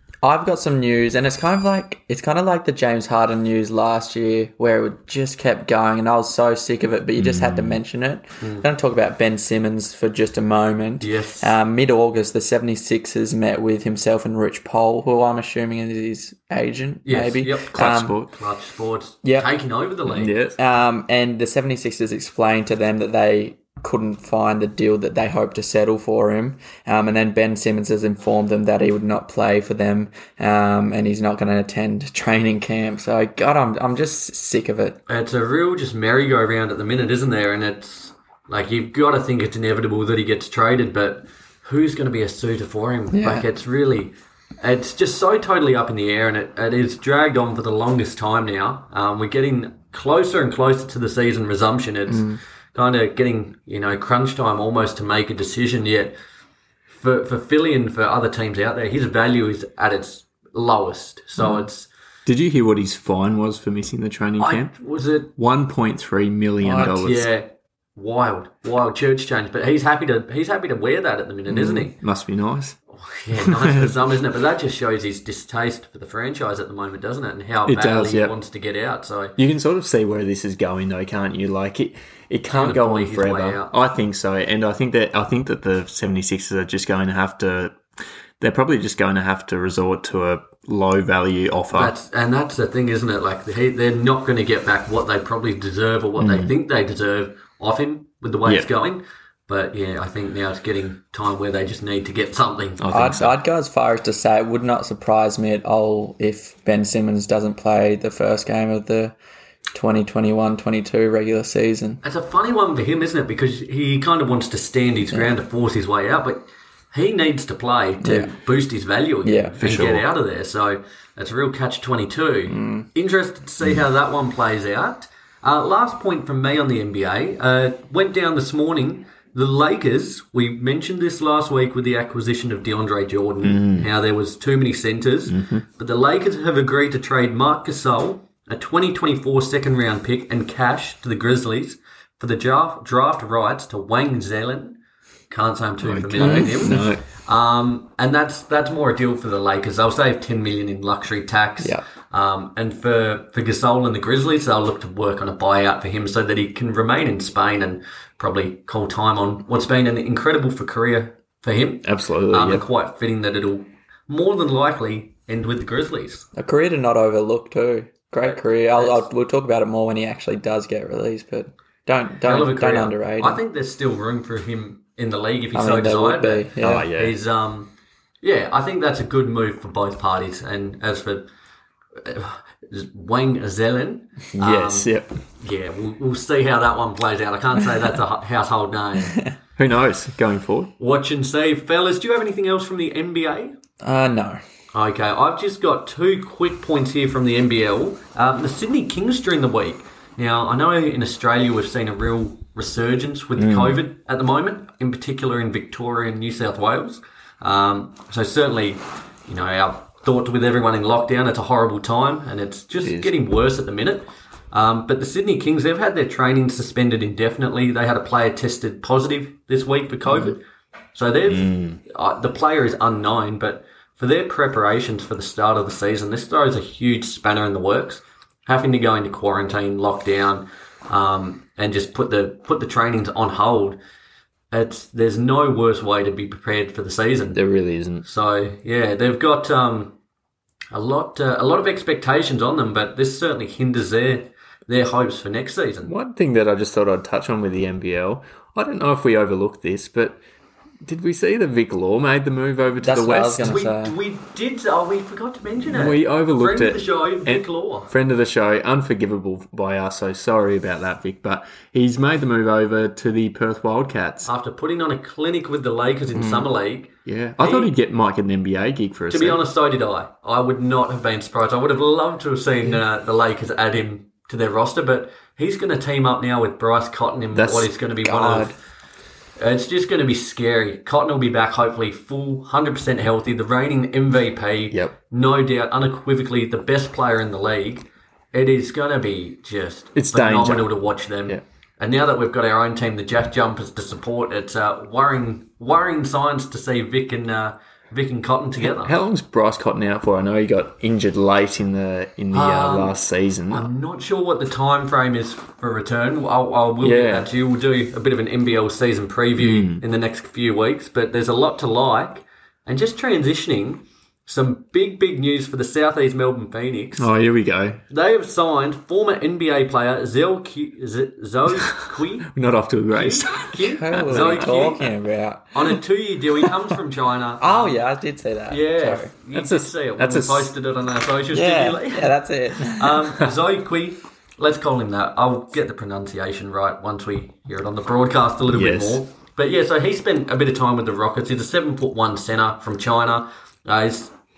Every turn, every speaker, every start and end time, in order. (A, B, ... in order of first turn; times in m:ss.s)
0:00.2-0:18.2 A
0:07.2-0:07.8 B
0:11.0-0:11.5 C
0:17.0-0:20.4 C
0:17.7-0:18.3 B
0:19.2-0:19.5 A
0:20.1-0:20.6 B
0:20.6-0:35.0 A
0:35.1-0:56.1 C
0:43.1-0:43.4 A
0:52.1-0:52.4 A
0:56.9-1:01.9 C
1:02.2-1:04.8 B
1:04.4-1:05.3 C
1:05.4-1:07.3 B
1:06.6-1:06.9 A
1:06.8-1:11.9 C
1:11.6-1:12.8 B
1:12.9-1:19.3 C
1:13.4-1:14.1 B
1:17.6-1:18.3 B
1:19.4-1:27.8 B
1:22.5-1:23.7 C
1:28.4-1:31.9 B
1:31.7-1:42.8 C
1:36.2-1:36.5 B
1:42.8-1:43.3 B
1:42.9-1:49.1 A
1:49.7-1:52.0 A
1:52.0-2:24.8 C
1:58.0-1:58.3 A
1:59.2-1:59.5 A
1:59.6-2:00.0 B
2:02.5-2:02.9 A
2:13.4-2:13.9 B
2:15.3-2:15.6 B
2:25.3-2:46.2 C
2:25.8-2:27.0 B
2:26.2-2:26.8 A
2:41.8-2:42.6 B
2:46.3-2:53.4 A
2:48.2-2:49.0 C
2:52.2-3:01.3 C
2:55.5-2:56.9 A
2:56.6-2:57.2 B
3:02.0-3:09.2 C
3:04.4-3:05.1 B
3:09.0-3:09.4 A
3:09.6-3:10.7 B
3:10.8-3:13.6 C
3:13.8-3:14.4 A
3:14.7-3:40.4 C
3:23.4-3:23.8 B
3:32.8-3:33.1 B
3:40.9-3:53.8 C
3:41.3-3:41.8 B
3:54.5-3:57.4 C
3:57.3-3:58.0 B
3:58.0-3:59.9 C
4:00.7-4:05.9 C
4:05.8-4:10.2 B
4:10.8-4:13.5 B
4:12.8-4:13.9 A
4:13.4-4:17.9 C
4:15.6-4:24.3 B
4:24.2-4:27.7 C
4:26.1-4:26.5 A
4:27.0-4:29.4 B
4:29.1-4:38.5 C
4:37.3-4:37.7 B
4:38.0-4:38.5 A
4:39.4-4:58.9 C
4:49.9-4:50.7 B
4:58.6-5:03.7 B
5:02.3-5:03.0 C
5:03.5-5:17.1 C
5:06.8-5:07.3 B
5:09.4-5:09.8 B
5:17.0-5:17.8 B
5:17.9-5:22.3 C
5:22.3-5:24.5 B
5:22.9-5:24.9 C
5:23.6-5:25.6 A
5:25.5-5:27.8 C
5:27.4-5:29.1 A
5:28.5-5:44.1 C
5:29.3-5:30.5 B
5:31.3-5:33.1 A
5:38.5-5:39.0 B